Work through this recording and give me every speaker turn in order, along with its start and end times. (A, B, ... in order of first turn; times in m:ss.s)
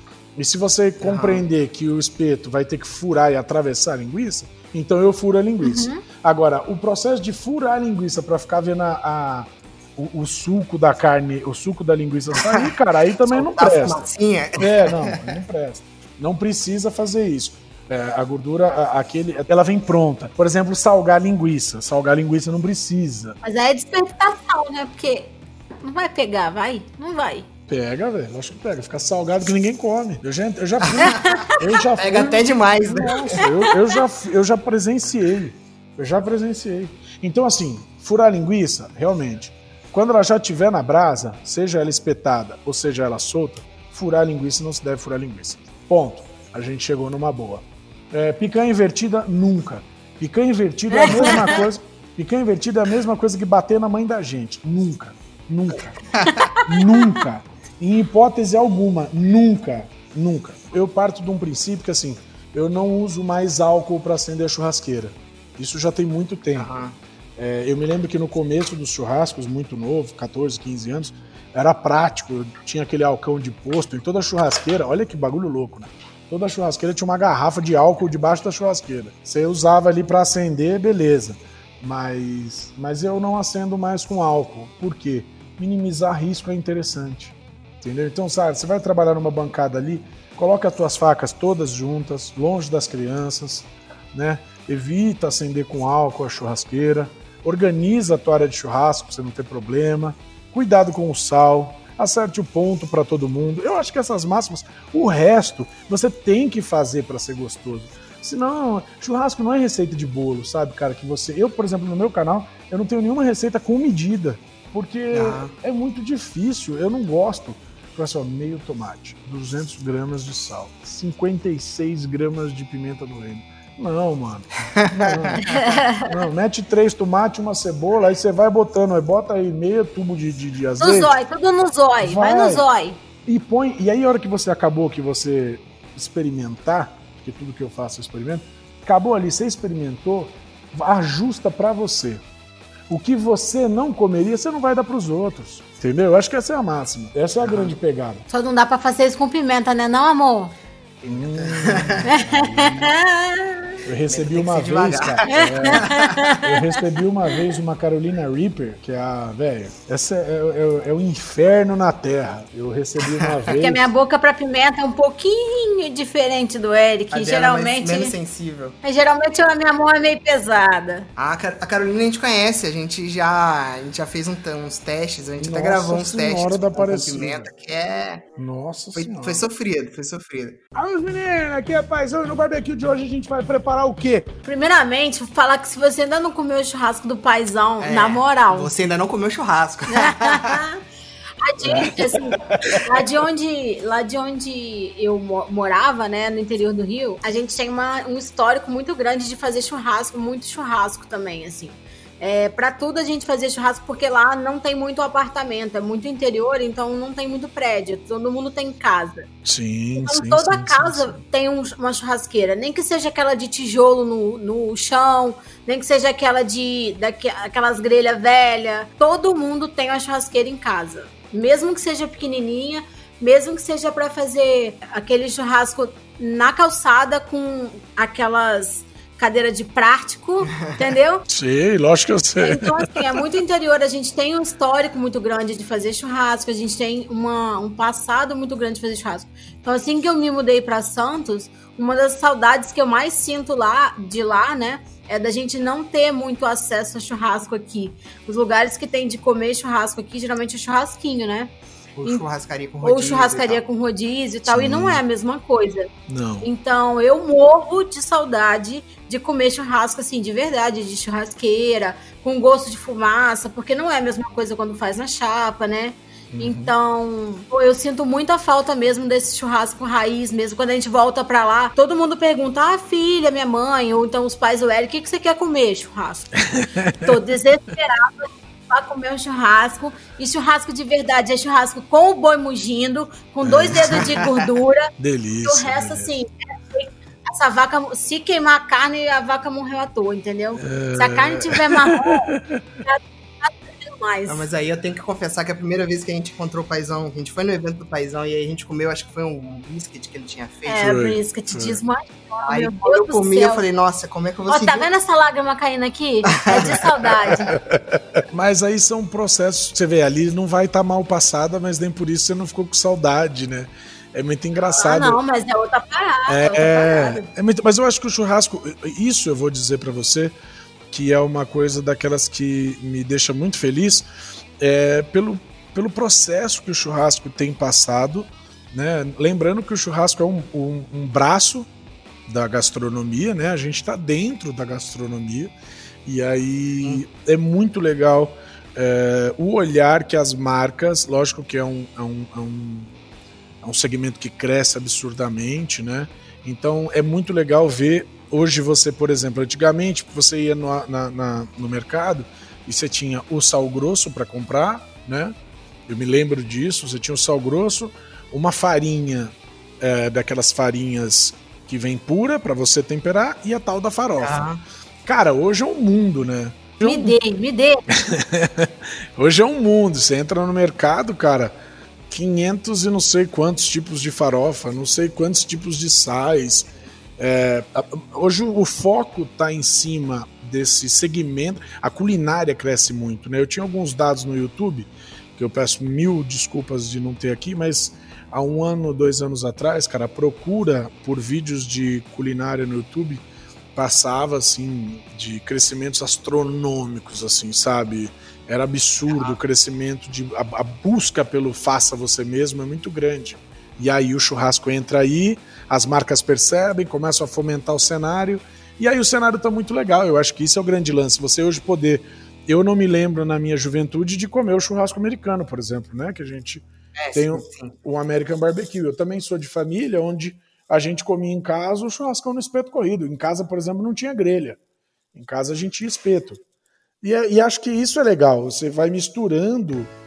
0:00.4-0:14.0 A
0:01.0-0:01.4 B
0:05.6-0:06.0 C
0:12.4-0:12.7 B
0:13.3-0:15.4 B
0:14.6-0:23.4 A
0:23.4-0:27.5 C
0:27.7-0:56.0 A
0:30.9-0:33.5 B
0:31.0-0:31.6 C
0:33.4-0:33.8 C
0:51.0-0:51.3 C
0:51.2-0:51.6 B
0:56.1-0:56.4 B
0:56.3-0:57.2 C
0:56.6-1:06.7 A
1:06.6-1:07.0 B
1:07.4-2:11.2 A
1:55.1-1:55.5 B
2:04.8-2:05.6 B
2:05.4-2:06.1 C
2:10.8-2:13.0 C
2:12.0-2:12.7 A
2:13.3-2:22.2 A
2:22.9-2:28.2 A
2:27.4-2:27.8 B
2:28.3-2:30.5 C
2:31.0-2:32.1 B
2:31.1-2:33.0 A
2:32.1-2:33.6 C
2:33.8-2:43.9 A
2:34.1-2:36.2 B
2:35.3-2:36.6 C
2:43.2-2:43.5 B
2:43.5-2:48.1 C
2:47.1-2:48.8 B
2:48.8-2:51.1 C
2:51.2-2:58.3 B
2:55.4-2:57.5 A
2:58.4-2:59.5 A
2:59.0-3:00.6 B
3:00.8-3:04.3 A
3:04.4-3:08.7 C
3:07.8-3:10.6 B
3:09.9-3:10.8 C
3:11.4-3:29.3 C
3:11.6-3:13.0 A
3:29.4-3:31.2 A
3:30.0-3:51.2 C
3:51.3-3:53.0 A
3:52.4-4:11.5 C
4:12.0-4:13.6 B
4:12.8-4:15.9 C
4:14.5-4:15.0 A
4:16.1-4:16.5 A
4:16.4-4:36.4 C
4:26.3-4:26.7 A
4:36.4-4:37.2 A
4:37.0-4:44.9 C
4:43.4-4:44.2 A
4:45.0-4:46.1 A
4:45.4-4:54.5 C
4:50.6-4:52.6 A
4:54.3-5:01.0 B
5:00.7-5:03.6 C
5:00.8-5:01.8 A
5:02.5-5:04.9 B
5:04.5-5:07.6 C
5:06.3-5:06.8 B
5:07.5-5:15.2 A
5:14.7-5:17.3 C
5:16.3-5:20.4 A
5:20.9-5:24.1 A
5:24.6-5:31.7 A
5:32.3-5:35.5 A
5:36.0-5:43.0 A
5:43.6-5:55.4 A
5:55.9-6:04.4 A
6:04.2-6:04.6 B
6:05.0-6:07.2 A
6:06.8-6:07.8 C
6:07.9-6:11.6 A
6:12.1-7:04.6 A
6:39.1-6:39.4 B
6:57.0-6:57.7 B
7:05.1-7:06.4 A
7:07.0-7:09.9 A